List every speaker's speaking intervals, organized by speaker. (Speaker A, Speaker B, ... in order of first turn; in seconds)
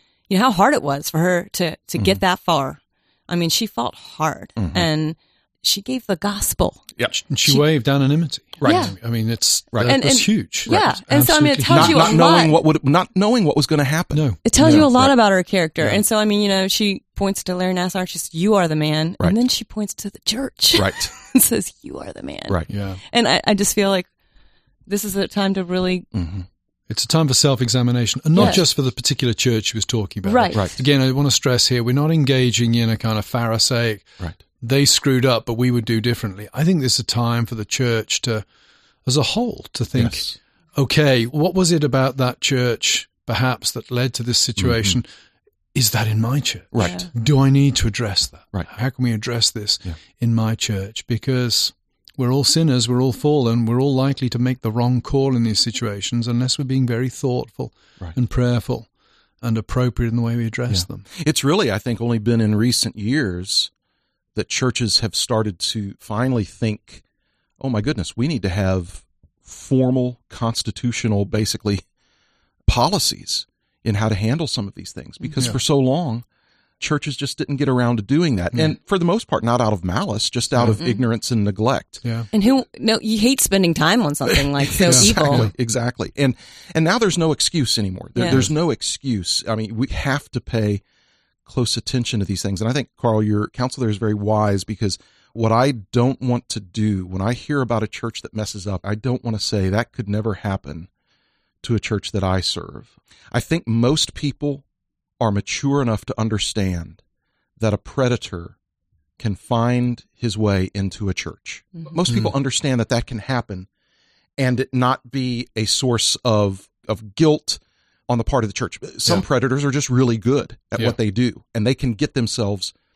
Speaker A: 0.3-6.8, 8.6-8.9, 9.8-12.6, 14.4-22.6, 23.1-24.1, 24.9-26.1, 28.3-28.6, 30.2-30.7, 46.8-47.1, 80.7-81.0, 82.3-85.5, 88.2-88.5
Speaker B: 4.6-4.9, 8.6-8.9, 11.7-15.1, 20.7-21.1, 26.1-26.4, 28.4-28.6, 39.9-40.4, 44.6-45.0, 60.7-63.7, 64.3-67.0, 67.6-71.8, 72.7-76.2, 76.8-82.0, 84.3-90.8, 91.5-100.9, 101.6-104.6, 105.2-107.0, 107.6-108.5, 109.2-113.7, 114.4-122.7
Speaker C: 7.1-12.2, 14.1-14.9, 22.7-23.0, 26.9-34.1, 34.6-38.4, 39.0-45.1, 45.7-58.9, 59.4-61.0, 84.8-85.5, 88.2-88.5, 112.1-112.3